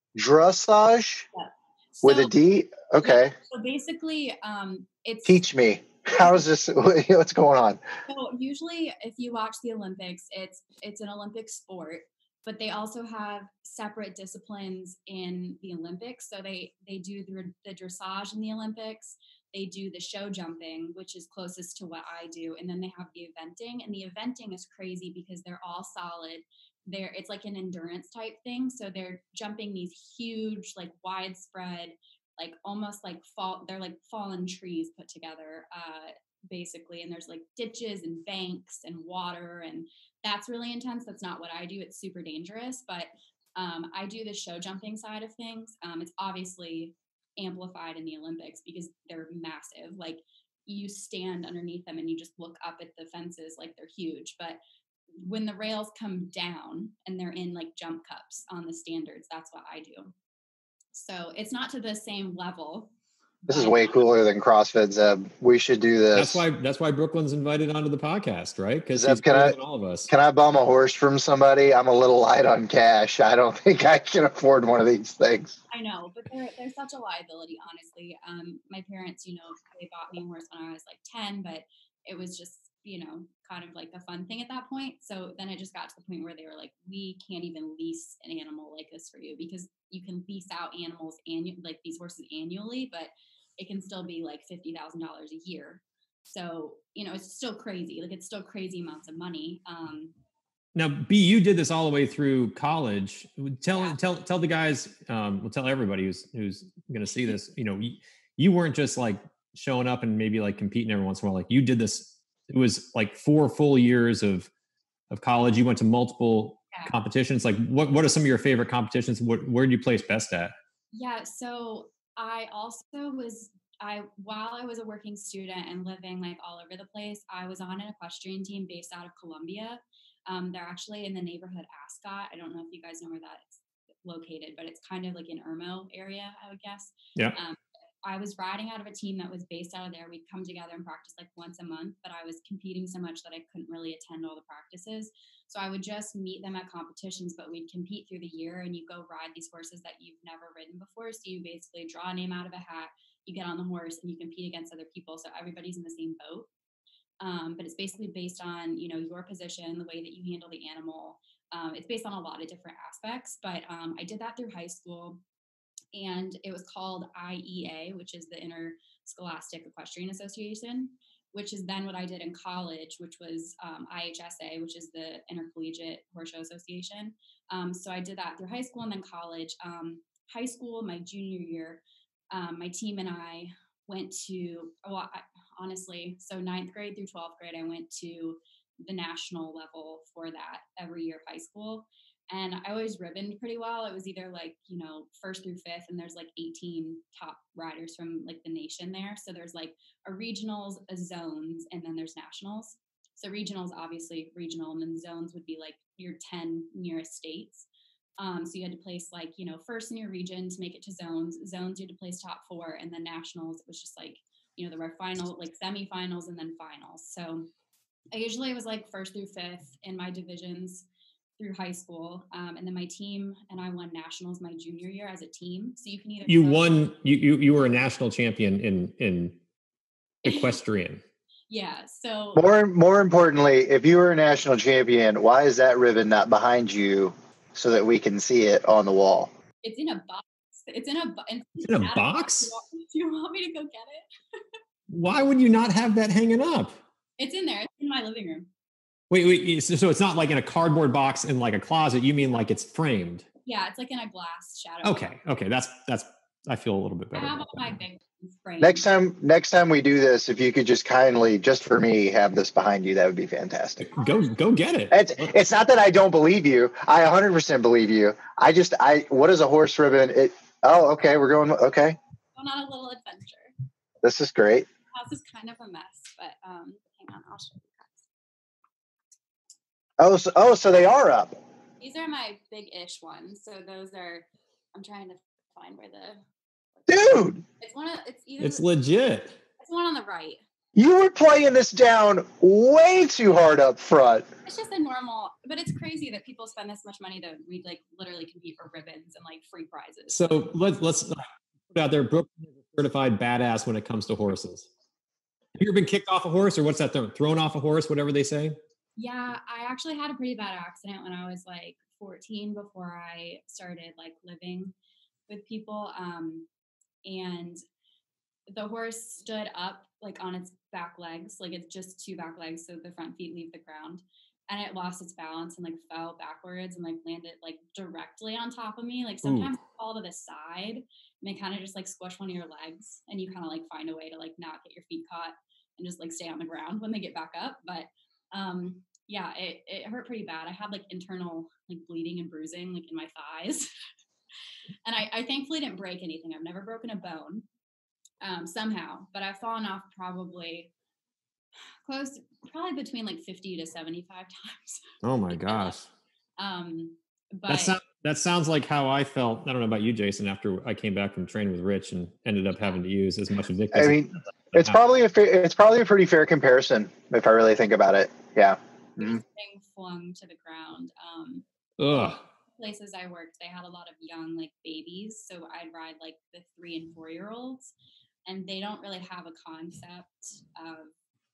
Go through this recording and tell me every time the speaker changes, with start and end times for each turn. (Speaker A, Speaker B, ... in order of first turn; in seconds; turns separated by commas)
Speaker A: 0.1-1.2, Speaker B: 1.3-2.3, Speaker A: 2.0-3.3, Speaker B: 3.0-5.4, Speaker A: 5.2-7.8, Speaker B: 8.1-54.6, Speaker B: 55.2-60.1, Speaker B: 60.9-62.9, Speaker B: 63.5-63.9, Speaker A: 63.5-66.4, Speaker C: 66.1-70.1, Speaker A: 68.9-69.5, Speaker A: 70.1-75.6, Speaker B: 75.7-100.1, Speaker C: 100.7-114.5, Speaker C: 115.1-120.5, Speaker B: 120.9-156.5, Speaker B: 157.2-165.2, Speaker B: 165.9-207.7, Speaker B: 208.2-217.5, Speaker B: 218.1-220.8, Speaker B: 221.4-226.8, Speaker C: 226.2-229.4, Speaker C: 230.2-231.0, Speaker B: 230.2-230.5, Speaker B: 231.5-232.5, Speaker A: 232.3-239.3, Speaker B: 239.6-244.5, Speaker C: 241.6-242.5, Speaker C: 244.9-246.8, Speaker B: 247.2-248.5, Speaker C: 249.1-253.2, Speaker B: 253.4-255.1, Speaker C: 254.8-257.4, Speaker B: 257.1-258.9, Speaker A: 258.6-263.9, Speaker C: 263.9-265.3, Speaker A: 264.9-272.0, Speaker B: 272.3-273.5, Speaker A: 274.0-274.7, Speaker B: 274.9-278.1, Speaker A: 280.0-281.4, Speaker B: 281.8-286.2, Speaker A: 286.9-287.4, Speaker B: 287.6-288.6, Speaker C: 288.4-289.4, Speaker B: 289.6-290.4, Speaker A: 290.7-294.3, Speaker B: 294.4-300.3, Speaker C: 300.1-304.7, Speaker C: 305.6-308.6, Speaker B: 309.0-314.7, Speaker B: 315.3-316.5, Speaker B: 317.0-317.6, Speaker B: 318.5-343.7, Speaker C: 329.2-329.5, Speaker B: 344.9-347.4, Speaker B: 348.2-350.7, Speaker B: 351.8-355.8, Speaker C: 355.0-355.9, Speaker B: 356.4-357.8, Speaker C: 357.5-364.8, Speaker A: 363.7-369.2, Speaker B: 369.0-371.4, Speaker C: 371.8-372.2, Speaker B: 372.6-377.7, Speaker B: 378.2-380.9